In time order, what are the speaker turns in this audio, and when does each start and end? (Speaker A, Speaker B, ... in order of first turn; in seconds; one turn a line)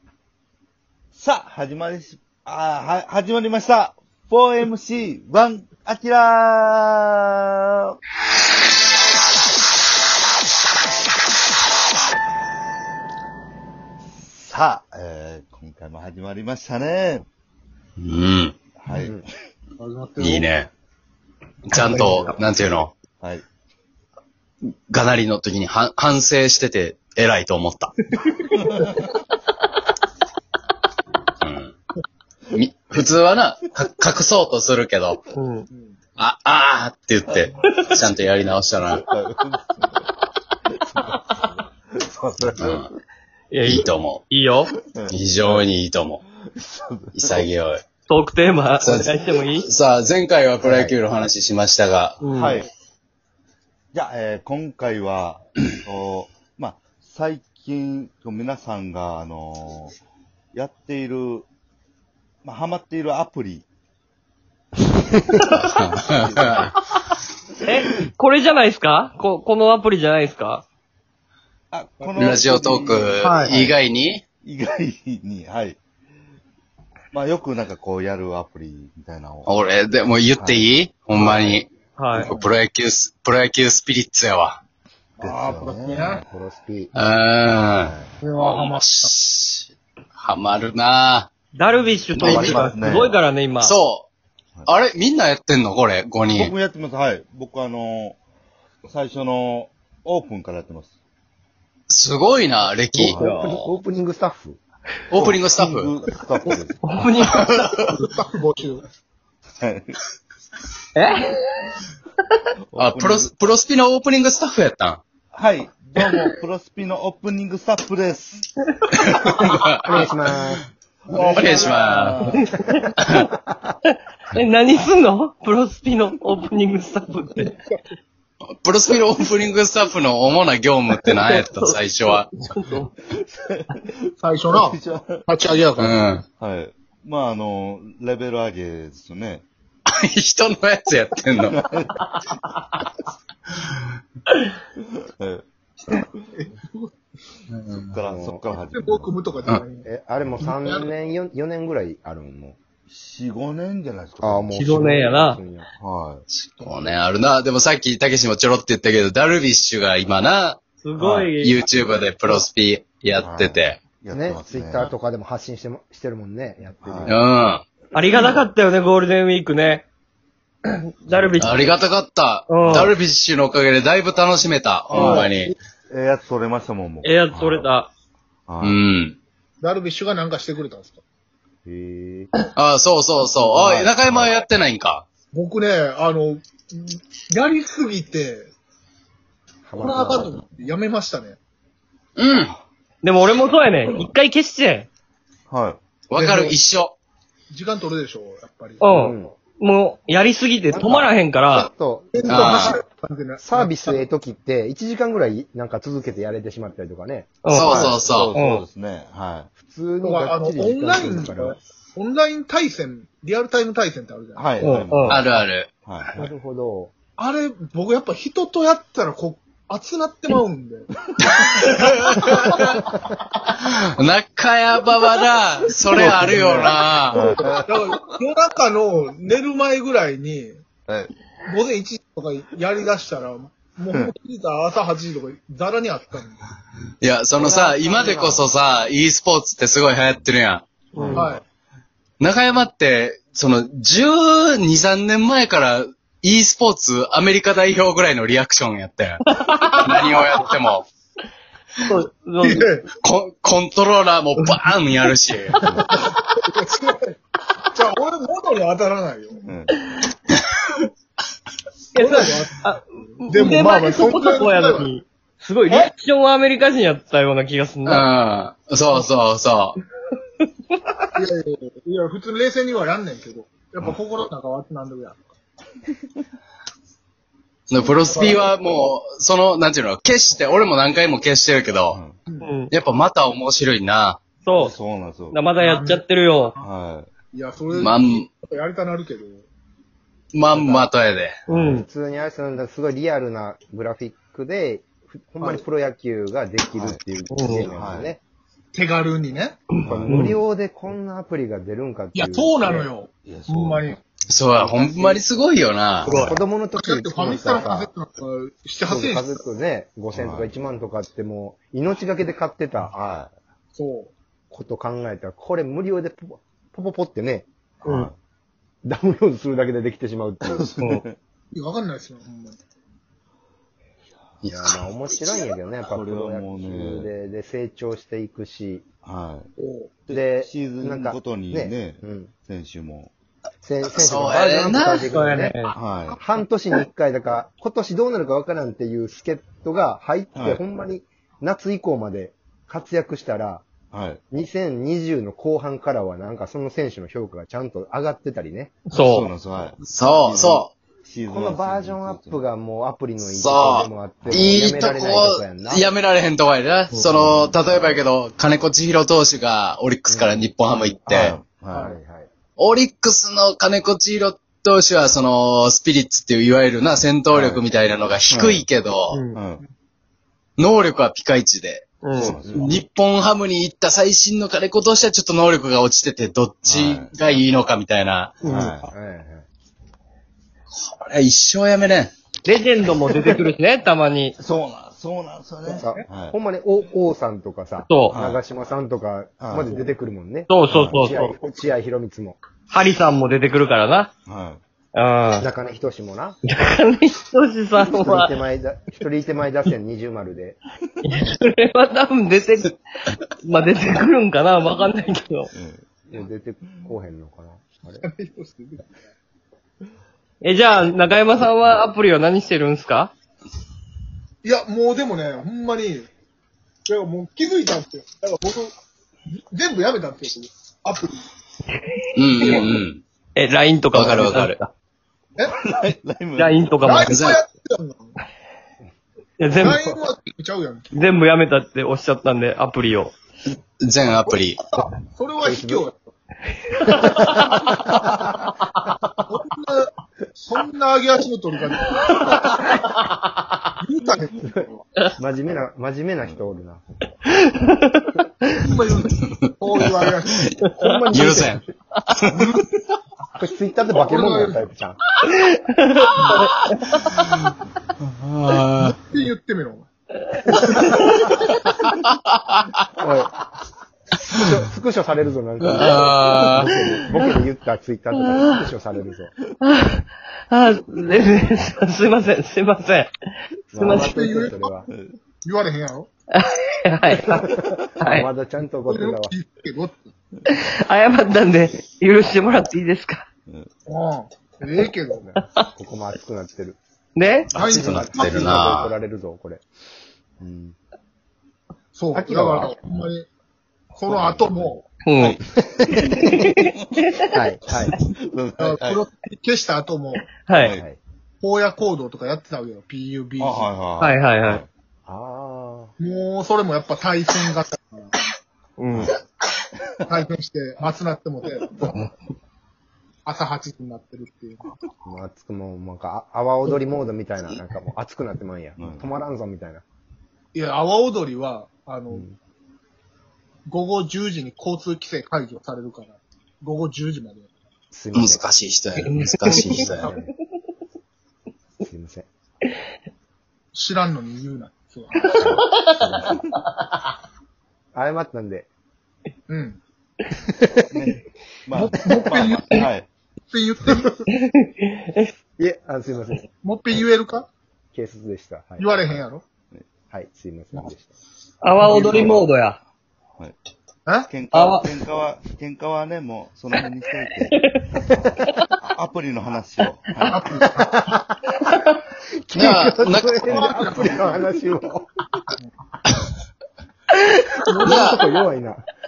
Speaker A: 1.1-7.4
Speaker A: 14.2-17.3
Speaker B: 18.0-18.6
Speaker A: 18.8-19.3
Speaker C: 19.0-19.2
Speaker D: 19.8-20.5
Speaker B: 20.2-20.7
Speaker B: 21.7-22.9
Speaker A: 22.0-22.4
Speaker B: 24.6-27.9
Speaker D: 28.7-29.0
Speaker B: 31.4-31.7
Speaker B: 32.5-35.2
Speaker E: 35.4-35.7
Speaker D: 35.7-36.0
Speaker B: 36.2-39.0
Speaker A: 38.9-39.9
Speaker A: 40.8-41.3
Speaker A: 41.9-43.0
Speaker B: 42.6-42.9
Speaker E: 43.5-44.7
Speaker B: 43.6-44.2
Speaker A: 44.9-45.7
Speaker B: 45.1-46.2
Speaker A: 46.5-47.5
Speaker B: 47.1-47.8
Speaker E: 48.1-49.7
Speaker B: 48.8-52.2
Speaker A: 50.6-50.9
Speaker E: 52.2-52.6
Speaker A: 52.3-52.7
Speaker A: 53.9-60.0
Speaker A: 60.5-61.5
Speaker A: 62.4-63.7
Speaker B: 65.5-66.7
Speaker A: 66.1-66.8
Speaker E: 67.7-70.7
Speaker A: 71.7-73.8
Speaker D: 72.0-72.4
Speaker B: 72.2-74.2
Speaker E: 73.2-73.5
Speaker A: 74.4-75.8
Speaker A: 77.1-79.5
Speaker B: 79.5-84.6
Speaker A: 80.4-80.7
Speaker D: 81.2-81.4
Speaker E: 82.0-82.3
Speaker D: 82.1-82.5
Speaker D: 85.2-86.2
Speaker A: 85.2-86.3
Speaker C: 86.2-86.9
Speaker B: 86.9-91.3
Speaker C: 87.8-88.1
Speaker D: 88.2-89.1
Speaker E: 91.5-93.8
Speaker B: 92.2-92.7
Speaker A: 92.2-93.2
Speaker B: 93.6-94.1
Speaker B: 94.7-96.5
Speaker A: 96.3-98.2
Speaker A: 98.9-101.0
Speaker B: 101.9-103.7
Speaker A: 103.0-103.3
Speaker C: 103.1-104.6
Speaker B: 105.1-105.9
Speaker A: 105.1-106.8
Speaker E: 106.5-108.1
Speaker B: 107.2-107.7
Speaker D: 107.8-108.8
Speaker A: 109.6-110.0
Speaker E: 111.0-111.8
Speaker A: 112.7-113.3
Speaker B: 112.8-115.0
Speaker A: 115.3-118.5
Speaker B: 118.9-120.1
Speaker C: 119.8-120.6
Speaker D: 121.1-122.3
Speaker B: 121.1-122.4
Speaker E: 122.3-122.9
Speaker C: 122.8-123.8
Speaker E: 124.3-127.6
Speaker D: 127.5-127.8
Speaker B: 128.6-132.3
Speaker E: 130.9-132.9
Speaker D: 134.2-136.0
Speaker A: 134.5-135.3
Speaker B: 135.8-136.2
Speaker A: 136.4-139.5
Speaker B: 139.9-141.6
Speaker A: 141.4-141.9
Speaker A: 145.2-145.4
Speaker D: 146.0-146.9
Speaker B: 147.5-147.9
Speaker A: 147.7-149.1
Speaker C: 148.1-148.5
Speaker D: 148.6-149.9
Speaker C: 149.8-152.6
Speaker D: 150.4-150.9
Speaker A: 152.9-154.6
Speaker C: 154.2-155.7
Speaker E: 154.5-155.4
Speaker A: 155.8-156.2
Speaker B: 156.3-163.8
Speaker D: 156.6-156.9
Speaker E: 160.8-162.4
Speaker A: 163.2-164.9
Speaker C: 164.1-167.2
Speaker A: 166.8-167.2
Speaker B: 167.1-167.6
Speaker E: 167.9-169.9
Speaker E: 170.7-171.8
Speaker A: 171.1-171.7
Speaker B: 171.4-175.5
Speaker E: 172.5-172.9
Speaker A: 172.6-172.9
Speaker A: 174.9-177.7
Speaker E: 174.9-175.3
Speaker E: 177.0-177.9
Speaker A: 178.5-178.8
Speaker B: 178.6-179.2
Speaker D: 179.6-181.0
Speaker A: 181.7-182.3
Speaker B: 182.6-185.0
Speaker A: 183.2-184.4
Speaker D: 185.3-188.5
Speaker C: 189.7-190.4
Speaker D: 189.8-191.4
Speaker B: 192.2-192.6
Speaker E: 193.0-194.9
Speaker A: 195.5-195.8
Speaker B: 196.1-196.9
Speaker D: 196.1-196.6
Speaker D: 197.5-198.9
Speaker E: 198.8-201.7
Speaker C: 198.9-199.3
Speaker C: 200.7-202.8
Speaker D: 202.1-204.1
Speaker B: 202.3-202.8
Speaker C: 203.4-208.0
Speaker E: 207.4-208.7
Speaker B: 207.5-208.3
Speaker A: 207.8-209.5
Speaker C: 209.6-211.6
Speaker D: 210.0-214.8
Speaker A: 214.4-216.1
Speaker E: 214.6-215.2
Speaker B: 215.1-215.7
Speaker C: 216.2-217.0
Speaker D: 217.2-222.8
Speaker B: 221.7-222.8
Speaker B: 223.6-227.2
Speaker A: 225.9-227.7
Speaker D: 227.1-230.6
Speaker D: 231.4-236.4
Speaker B: 237.0-240.7
Speaker C: 237.4-238.5
Speaker A: 240.9-241.4
Speaker C: 241.0-241.3
Speaker D: 241.1-241.4
Speaker B: 242.2-249.2
Speaker E: 249.3-250.1
Speaker B: 249.8-250.9
Speaker E: 251.8-252.7
Speaker D: 252.4-252.9
Speaker B: 252.9-255.6
Speaker E: 254.4-254.7
Speaker D: 255.9-257.2
Speaker D: 257.7-259.5
Speaker A: 259.5-259.7
Speaker D: 261.9-262.7
Speaker E: 261.9-268.1
Speaker D: 263.2-264.9
Speaker B: 267.9-269.8
Speaker E: 270.4-270.8
Speaker D: 271.1-275.3
Speaker B: 277.7-282.0
Speaker D: 277.8-278.4
Speaker E: 282.4-282.7
Speaker B: 282.7-284.2
Speaker E: 284.4-284.8
Speaker A: 284.6-285.4
Speaker E: 285.3-286.6
Speaker D: 285.6-286.7
Speaker A: 286.6-287.1
Speaker D: 287.3-289.5
Speaker B: 287.8-288.3
Speaker B: 290.3-291.4
Speaker E: 291.5-291.9
Speaker C: 291.5-298.2
Speaker E: 297.3-297.7
Speaker A: 297.6-298.1
Speaker D: 298.7-299.6
Speaker C: 299.8-302.9
Speaker E: 299.8-300.4
Speaker D: 302.1-305.2
Speaker A: 303.2-303.9
Speaker B: 304.3-306.3
Speaker E: 306.1-306.4
Speaker C: 306.1-307.9
Speaker D: 306.7-309.5
Speaker C: 308.9-313.3
Speaker A: 310.1-310.5
Speaker D: 313.7-314.1
Speaker C: 314.5-317.5
Speaker A: 317.8-318.1
Speaker E: 317.9-318.1
Speaker C: 318.8-320.7
Speaker A: 320.4-321.1
Speaker D: 321.5-322.6
Speaker B: 324.4-324.8
Speaker C: 324.5-328.9
Speaker A: 325.9-327.1
Speaker A: 329.0-329.5
Speaker D: 329.6-330.1
Speaker A: 330.1-333.1
Speaker C: 330.1-332.3
Speaker C: 333.6-335.6
Speaker B: 333.9-335.1
Speaker E: 335.0-335.8
Speaker A: 335.8-336.2
Speaker C: 336.1-343.7
Speaker A: 340.4-340.6
Speaker A: 343.9-344.2
Speaker C: 344.3-348.8
Speaker E: 348.9-349.3
Speaker A: 348.9-352.4
Speaker B: 349.8-350.7
Speaker C: 351.3-355.9
Speaker B: 353.2-361.4
Speaker A: 354.2-354.5
Speaker A: 357.0-357.6
Speaker C: 360.1-360.5
Speaker A: 361.1-361.9
Speaker C: 361.8-362.3
Speaker B: 362.6-369.2
Speaker A: 367.3-367.7
Speaker E: 369.1-369.4
Speaker A: 369.3-369.6
Speaker B: 370.6-371.9
Speaker E: 372.0-372.4
Speaker A: 372.2-372.8
Speaker B: 372.5-378.4
Speaker A: 376.6-377.1
Speaker E: 378.4-378.8
Speaker A: 378.4-378.9
Speaker C: 378.9-379.4
Speaker B: 380.9-382.1
Speaker E: 382.4-384.4
Speaker A: 384.4-386.4
Speaker D: 385.7-386.0
Speaker C: 385.7-392.4
Speaker E: 387.9-388.2
Speaker A: 388.1-388.4
Speaker A: 389.4-389.7
Speaker E: 390.5-391.3
Speaker A: 390.7-391.3
Speaker E: 392.7-394.1
Speaker A: 394.3-394.6
Speaker E: 394.9-395.5
Speaker C: 395.4-396.4
Speaker E: 396.4-398.4
Speaker C: 397.8-400.6
Speaker E: 401.0-402.8
Speaker E: 403.4-405.5
Speaker A: 405.5-405.9
Speaker C: 406.1-408.1
Speaker D: 408.0-409.0
Speaker E: 410.4-413.1
Speaker D: 414.4-416.1
Speaker D: 416.9-418.7
Speaker D: 419.5-421.3
Speaker E: 421.8-422.7
Speaker B: 422.1-423.0
Speaker D: 422.4-422.7
Speaker E: 423.4-424.7
Speaker B: 423.9-424.6
Speaker A: 425.5-426.8
Speaker E: 426.4-427.3
Speaker D: 426.9-428.1
Speaker B: 427.1-427.4
Speaker E: 429.4-429.9
Speaker D: 429.6-430.9
Speaker E: 430.9-433.1
Speaker B: 433.8-434.6
Speaker D: 434.1-436.1
Speaker C: 435.4-435.9
Speaker E: 436.8-438.7
Speaker C: 436.9-438.4
Speaker D: 439.3-442.6
Speaker E: 442.1-443.6
Speaker D: 443.8-444.8
Speaker C: 445.2-447.2
Speaker E: 447.3-448.2
Speaker D: 448.6-450.5
Speaker B: 449.2-449.9
Speaker E: 450.6-450.9
Speaker C: 450.8-451.6
Speaker B: 451.1-452.4
Speaker D: 452.3-452.6
Speaker C: 453.4-455.0
Speaker D: 453.9-454.6
Speaker E: 455.2-457.0
Speaker B: 457.0-457.5
Speaker B: 458.1-459.0
Speaker D: 458.5-459.9
Speaker E: 460.3-461.3
Speaker C: 460.5-461.5
Speaker B: 461.9-462.1
Speaker C: 463.0-463.4
Speaker C: 464.3-469.4
Speaker B: 465.6-466.8
Speaker E: 468.2-468.6
Speaker E: 469.6-473.1
Speaker C: 473.7-474.9
Speaker E: 473.8-474.2
Speaker D: 473.9-474.8
Speaker A: 474.9-475.2
Speaker D: 475.4-476.1
Speaker E: 476.3-477.5
Speaker C: 477.3-479.3
Speaker E: 478.0-478.3
Speaker D: 478.9-480.1
Speaker E: 480.5-483.3
Speaker D: 483.9-485.4
Speaker C: 485.6-486.8
Speaker E: 487.2-487.5
Speaker C: 487.5-489.6
Speaker B: 487.5-488.9
Speaker D: 487.6-488.5
Speaker C: 490.4-490.7
Speaker D: 491.9-493.3
Speaker C: 492.1-492.9
Speaker D: 493.9-494.9
Speaker C: 494.1-494.8
Speaker E: 495.0-495.4
Speaker A: 495.2-497.1
Speaker E: 496.2-497.2
Speaker C: 497.3-498.0
Speaker A: 498.1-499.0
Speaker D: 498.6-500.3
Speaker E: 500.3-500.8
Speaker A: 500.6-500.9
Speaker C: 500.7-501.0
Speaker D: 501.4-503.7
Speaker A: 503.4-504.7
Speaker E: 504.0-504.6
Speaker C: 505.1-505.9
Speaker D: 506.0-508.2
Speaker E: 508.8-509.1
Speaker D: 510.1-512.1
Speaker D: 513.2-514.7
Speaker C: 515.0-519.8
Speaker A: 518.8-519.2
Speaker D: 520.5-522.2
Speaker C: 522.1-522.4
Speaker D: 523.7-527.5
Speaker C: 527.9-528.5
Speaker B: 528.1-530.1
Speaker E: 529.0-530.3
Speaker D: 529.5-530.3
Speaker C: 531.8-532.3
Speaker D: 533.7-535.5
Speaker E: 535.2-536.8
Speaker C: 535.4-536.3
Speaker A: 536.1-536.5
Speaker C: 537.9-538.7
Speaker D: 539.5-539.8
Speaker C: 540.4-540.9
Speaker A: 540.9-543.1
Speaker D: 541.8-542.9
Speaker D: 543.5-544.2
Speaker E: 544.4-545.3
Speaker C: 545.6-546.5
Speaker D: 546.6-547.5
Speaker C: 547.9-549.2
Speaker D: 548.8-549.4
Speaker C: 550.1-551.1
Speaker E: 551.6-552.8
Speaker D: 551.8-552.5
Speaker A: 552.0-552.4
Speaker D: 554.1-554.3
Speaker A: 554.3-560.5
Speaker E: 554.5-555.0
Speaker E: 557.5-557.9
Speaker D: 560.3-561.1
Speaker C: 560.5-561.4
Speaker E: 561.7-562.0
Speaker C: 562.5-565.1
Speaker B: 562.5-563.5
Speaker D: 563.5-564.4
Speaker D: 567.7-568.0
Speaker C: 567.8-568.9
Speaker B: 567.9-568.2